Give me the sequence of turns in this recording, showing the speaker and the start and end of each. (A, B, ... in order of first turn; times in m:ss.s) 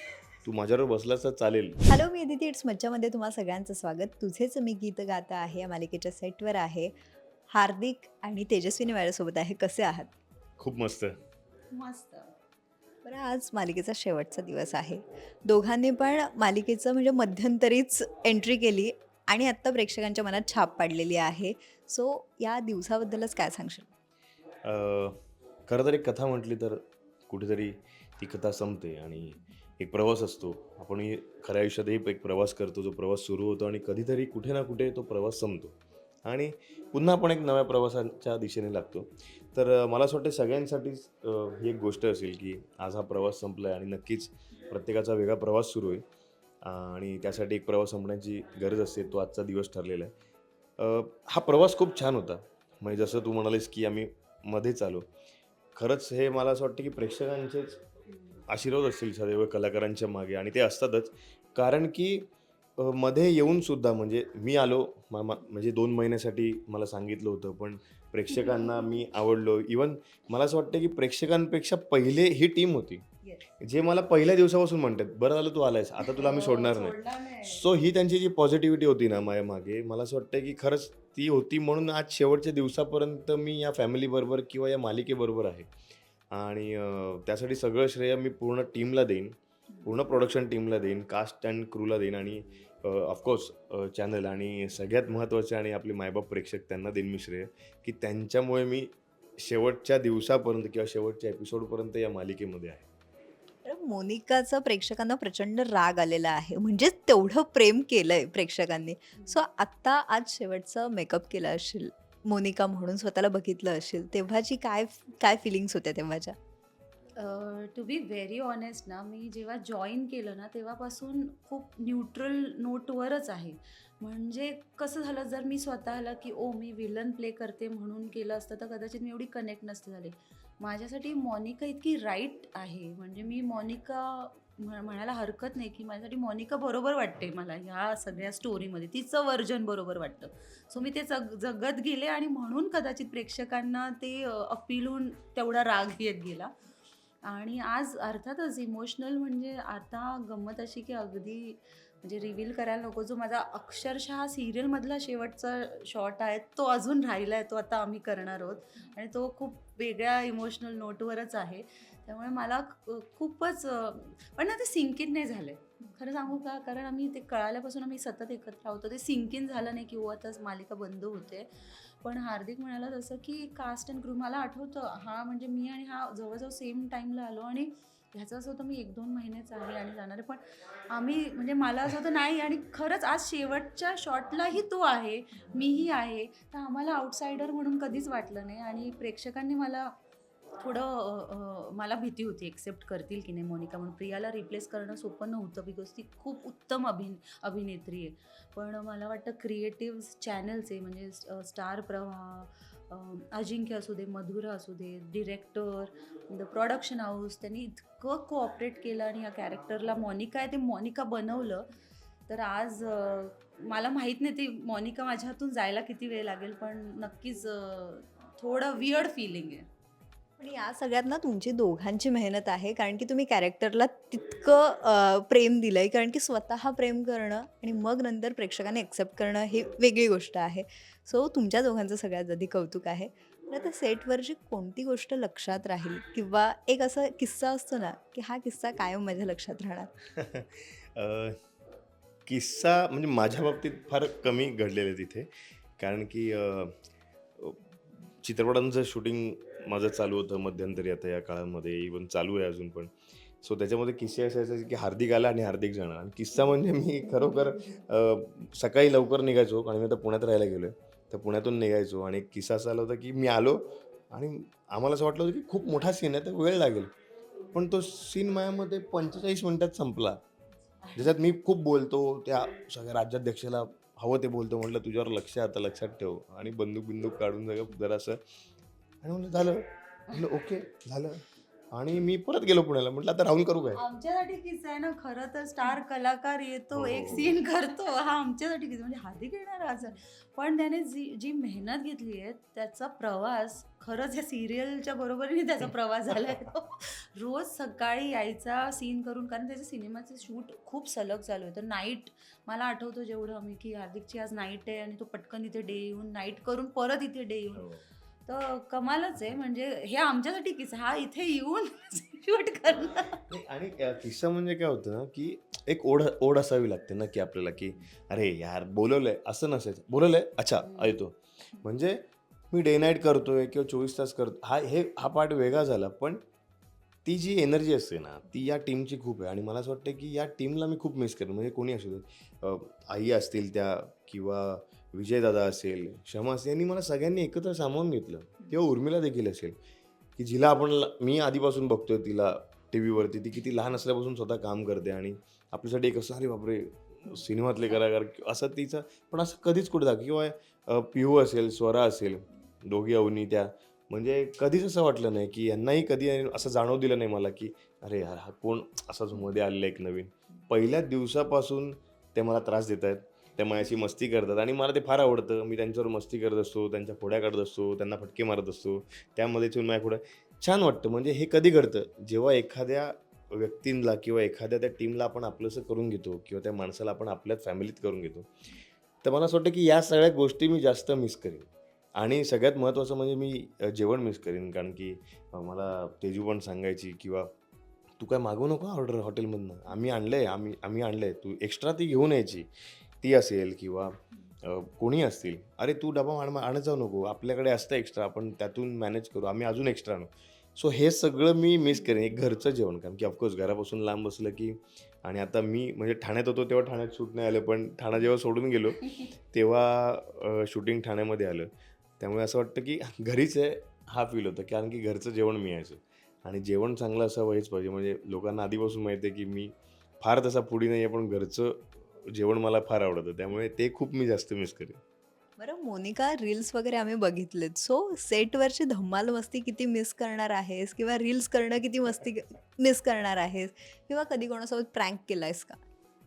0:00.4-0:01.8 A
0:01.9-0:06.9 B
0:07.5-0:10.1 B
0:10.6-0:11.2 A
0:11.7-0:12.3 C
0:13.0-0:23.9 B
0:24.6-0:46.0 A
0:46.6-0:50.1 A
0:50.8-0:55.1 A
0:55.8-0:57.8 A
0:58.5-1:13.1 A
1:13.6-1:25.7 A
1:16.0-1:17.6 C
1:26.3-1:42.9 A
1:43.6-1:56.4 B
1:57.2-2:26.5 C
2:27.2-2:51.5 C
2:52.0-3:09.9 C
3:10.6-3:31.7 C
3:32.3-3:39.7 C
3:40.4-3:59.9 B
4:00.1-4:01.4 A
4:02.3-4:06.7 A
4:08.2-4:26.9 A
4:27.5-4:30.2 A
4:30.9-4:38.2 A
4:39.0-4:43.8 A
4:43.8-5:07.7 C
4:46.7-4:47.3 A
5:07.6-5:07.8 A
5:08.3-5:13.2 C
5:13.3-5:26.2 A
5:20.6-5:21.0 C
5:27.0-5:39.6 A
5:40.2-6:18.3 A
6:19.0-6:27.3 A
6:28.0-6:32.5 A
6:33.0-7:04.8 A
7:05.4-7:15.6 B